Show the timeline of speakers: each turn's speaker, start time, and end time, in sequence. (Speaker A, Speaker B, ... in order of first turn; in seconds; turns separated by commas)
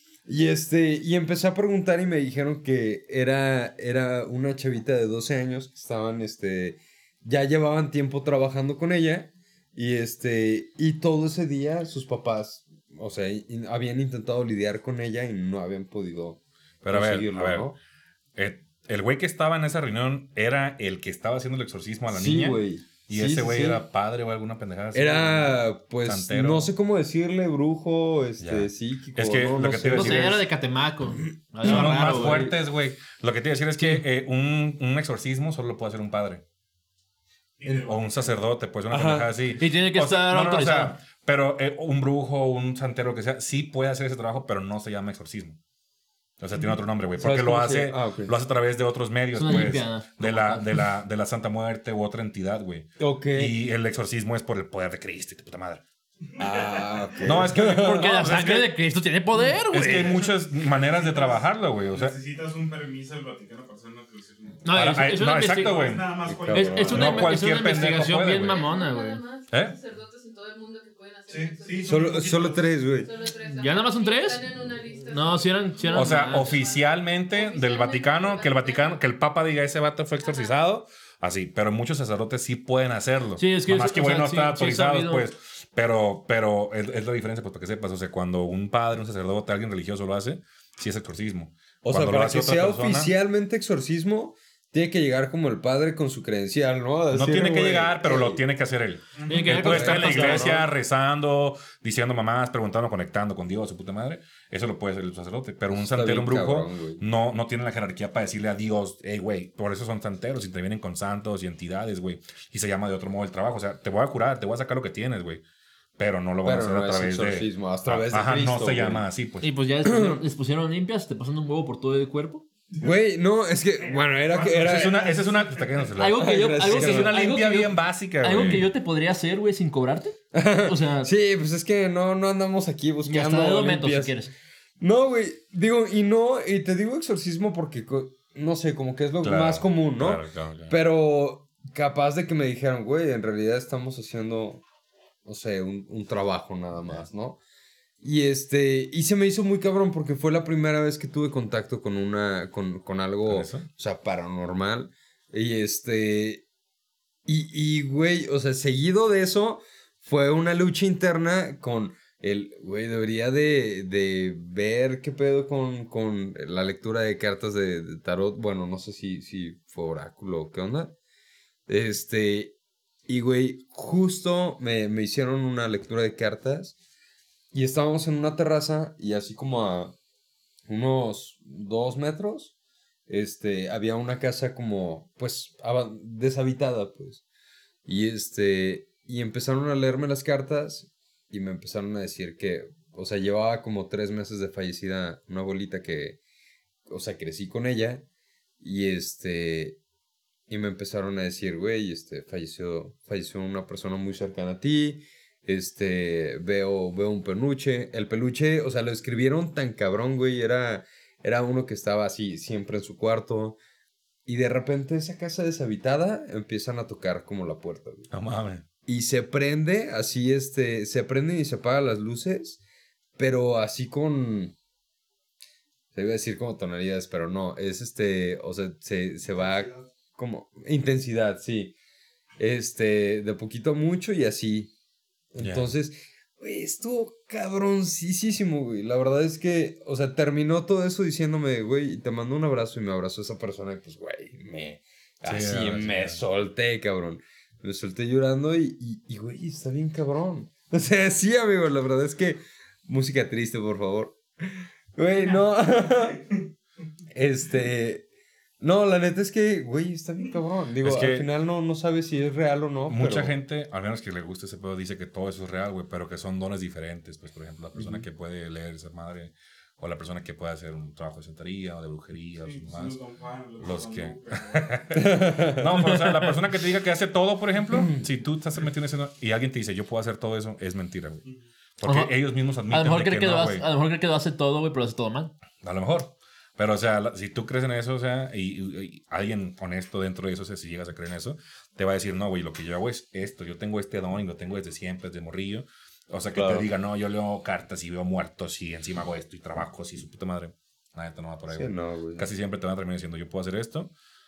Speaker A: 0.3-17.8, Speaker B: 16.8-17.7, Speaker B: 18.4-26.7, Speaker A: 22.1-23.8, Speaker A: 24.9-30.4, Speaker B: 28.4-30.4, Speaker C: 29.9-32.5, Speaker A: 31.6-32.5, Speaker B: 31.6-36.4, Speaker D: 37.6-38.2, Speaker B: 37.7-45.6, Speaker A: 38.9-39.3, Speaker C: 39.6-41.0, Speaker B: 46.4-55.8, Speaker A: 47.2-48.3, Speaker C: 49.3-50.9, Speaker A: 53.0-53.5, Speaker A: 56.4-58.3, Speaker B: 57.2-58.8, Speaker C: 57.8-60.1, Speaker B: 59.7-62.1, Speaker D: 59.7-67.4, Speaker C: 64.6-66.0, Speaker B: 64.7-66.1, Speaker A: 66.2-67.0, Speaker C: 66.5-69.2, Speaker B: 66.9-68.6, Speaker E: 68.3-72.2, Speaker B: 69.5-69.8, Speaker D: 71.3-72.8, Speaker A: 71.8-73.1, Speaker E: 73.0-79.0, Speaker C: 73.6-74.4, Speaker C: 75.1-76.5, Speaker B: 75.9-93.1, Speaker E: 80.2-80.6, Speaker C: 83.4-85.3, Speaker A: 91.8-98.4, Speaker B: 97.1-115.4, Speaker D: 99.2-99.6, Speaker C: 99.3-100.7, Speaker A: 99.5-100.7, Speaker A: 105.7-107.0, Speaker B: 116.0-119.5, Speaker A: 116.4-119.0, Speaker C: 119.4-122.5, Speaker A: 119.8-120.2, Speaker A: 122.8-125.2, Speaker D: 124.1-125.9, Speaker B: 124.6-128.7, Speaker C: 126.0-131.1, Speaker A: 126.2-127.2, Speaker A: 130.3-134.2, Speaker C: 133.1-134.3, Speaker A: 134.8-144.6, Speaker B: 139.2-140.8, Speaker A: 145.2-147.4, Speaker A: 148.0-156.4, Speaker B: 153.3-153.7, Speaker A: 157.2-170.9, Speaker A: 171.7-172.5, Speaker A: 173.1-176.8, Speaker A: 177.5-179.9, Speaker A: 180.7-182.5, Speaker A: 183.1-187.2, Speaker A: 187.8-196.2, Speaker A: 196.9-198.0, Speaker A: 198.6-199.8, Speaker A: 200.5-213.6, Speaker A: 214.2-218.1, Speaker B: 218.1-218.6, Speaker A: 218.8-222.6, Speaker A: 223.2-224.5, Speaker A: 225.9-231.7, Speaker A: 232.4-234.7, Speaker A: 235.3-254.2, Speaker B: 235.4-235.7, Speaker B: 245.2-246.2, Speaker A: 254.9-256.3, Speaker A: 257.1-258.1, Speaker A: 258.6-263.3, Speaker B: 260.8-261.3, Speaker B: 262.9-273.0, Speaker A: 267.8-268.0, Speaker D: 272.4-274.8, Speaker B: 273.6-281.2, Speaker A: 274.9-275.7, Speaker C: 275.9-276.3, Speaker A: 277.8-278.0, Speaker B: 281.8-283.6, Speaker C: 281.8-282.2, Speaker C: 282.7-285.3, Speaker B: 285.6-303.9, Speaker A: 296.3-296.6, Speaker A: 301.5-302.3